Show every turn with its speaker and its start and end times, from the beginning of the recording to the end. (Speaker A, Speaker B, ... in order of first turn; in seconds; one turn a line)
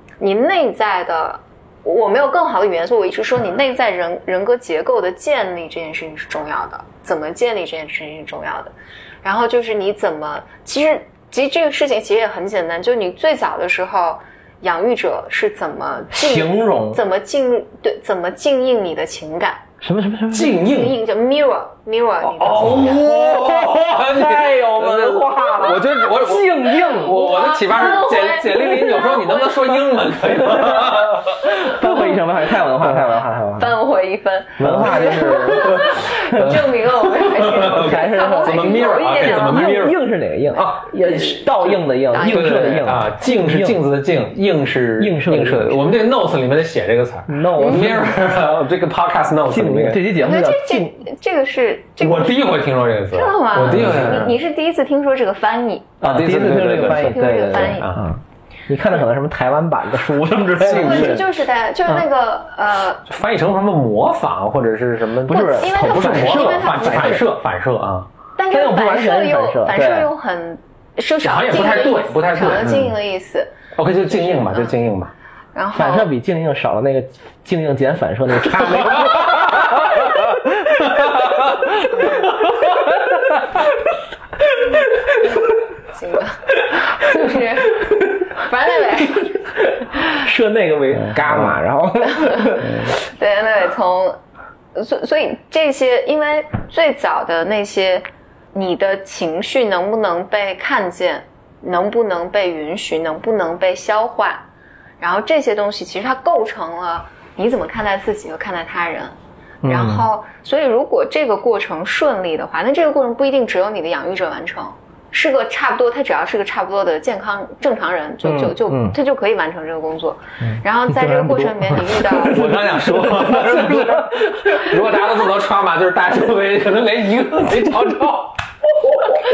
Speaker A: 0.2-19.6
Speaker B: 16.1-17.0
Speaker B: 19.8-20.6
Speaker C: 20.3-20.9
Speaker A: 20.6-23.1
Speaker C: 22.2-31.8
Speaker B: 22.6-27.4
Speaker A: 27.1-29.8
Speaker B: 30.5-33.8
Speaker A: 33.6-39.8
Speaker C: 34.6-40.0
Speaker B: 34.6-36.6
Speaker B: 37.5-43.8
Speaker A: 41.0-42.8
Speaker C: 42.2-50.1
Speaker B: 45.0-45.8
Speaker B: 47.3-48.2
Speaker A: 47.6-47.9
Speaker B: 49.5-51.0
Speaker A: 50.2-52.4
Speaker C: 52.0-54.4
Speaker A: 53.1-56.0
Speaker B: 56.0-61.2
Speaker C: 56.0-58.0
Speaker A: 56.9-57.9
Speaker C: 60.6-61.2
Speaker A: 60.7-63.0
Speaker C: 63.1-68.1
Speaker B: 65.3-67.2
Speaker A: 65.3-67.2
Speaker A: 68.3-73.5
Speaker B: 68.5-70.1
Speaker C: 71.2-72.9
Speaker C: 73.7-75.1
Speaker A: 74.2-74.7
Speaker A: 75.5-76.1
Speaker B: 75.7-81.0
Speaker A: 81.9-82.3
Speaker B: 82.6-83.1
Speaker B: 84.5-85.2
Speaker A: 85.9-89.4
Speaker B: 89.8-92.9
Speaker A: 92.1-94.2
Speaker A: 94.7-104.5
Speaker A: 105.0-122.4
Speaker B: 109.6-110.1
Speaker B: 118.2-119.0
Speaker B: 120.4-124.7
Speaker C: 122.2-128.4